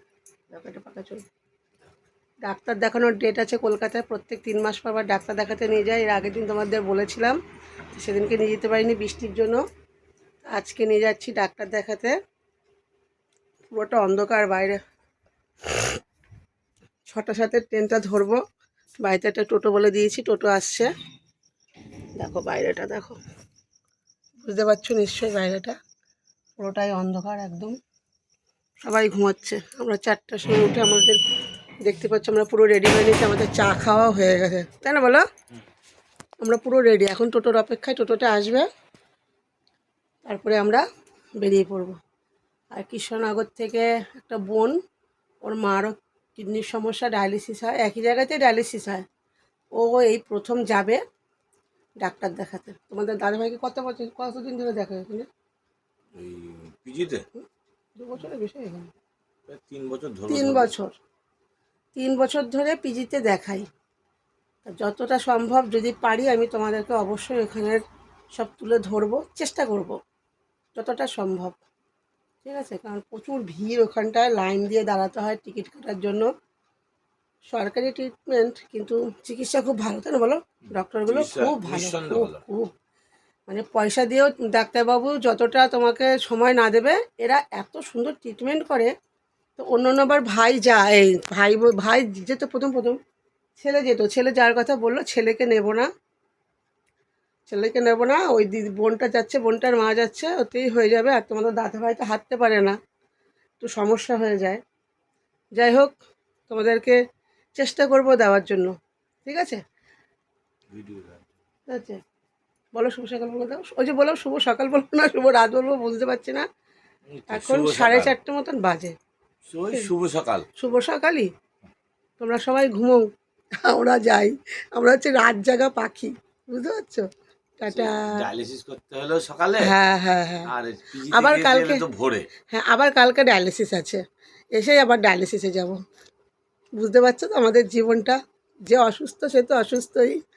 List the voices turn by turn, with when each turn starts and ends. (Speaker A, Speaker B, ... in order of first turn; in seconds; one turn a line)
Speaker A: 0.5-1.2
Speaker A: 2.4-7.4
Speaker A: 7.9-9.6
Speaker A: 10.4-12.1
Speaker A: 13.7-14.8
Speaker A: 17.1-18.4
Speaker A: 19.0-20.9
Speaker A: 22.2-23.2
Speaker A: 24.4-25.8
Speaker A: 26.6-27.7
Speaker A: 28.8-31.2
Speaker A: 31.8-35.2
Speaker A: 36.4-38.7
Speaker A: 40.2-40.8
Speaker A: 41.4-42.0
Speaker A: 42.7-44.8
Speaker A: 45.4-49.0
Speaker A: 49.7-51.0
Speaker A: 52.0-55.3
Speaker B: 56.2-57.2
Speaker A: 58.0-58.9
Speaker B: 59.5-60.7
Speaker A: 60.3-60.9
Speaker A: 62.0-63.7
Speaker A: 64.6-67.8
Speaker A: 68.4-70.0
Speaker A: 70.8-71.6
Speaker A: 72.4-76.3
Speaker A: 77.5-82.7
Speaker B: 81.0-82.4
Speaker A: 83.5-88.9
Speaker A: 89.6-93.0
Speaker A: 93.6-95.9
Speaker A: 97.5-102.8
Speaker A: 103.6-104.6
Speaker A: 105.6-106.0
Speaker A: 106.5-107.0
Speaker A: 107.6-108.7
Speaker A: 109.2-109.6
Speaker B: 110.7-111.3
Speaker A: 111.7-112.0
Speaker A: 112.8-116.5
Speaker B: 117.1-118.1
Speaker A: 117.3-119.0
Speaker B: 119.5-120.5
Speaker A: 120.6-121.3
Speaker A: 122.2-123.1
Speaker A: 123.6-127.1
Speaker A: 127.6-128.3
Speaker B: 127.7-129.7
Speaker A: 129.6-130.5
Speaker B: 130.4-132.3
Speaker A: 131.1-131.8
Speaker A: 132.5-134.0
Speaker A: 134.5-135.8
Speaker A: 136.8-140.2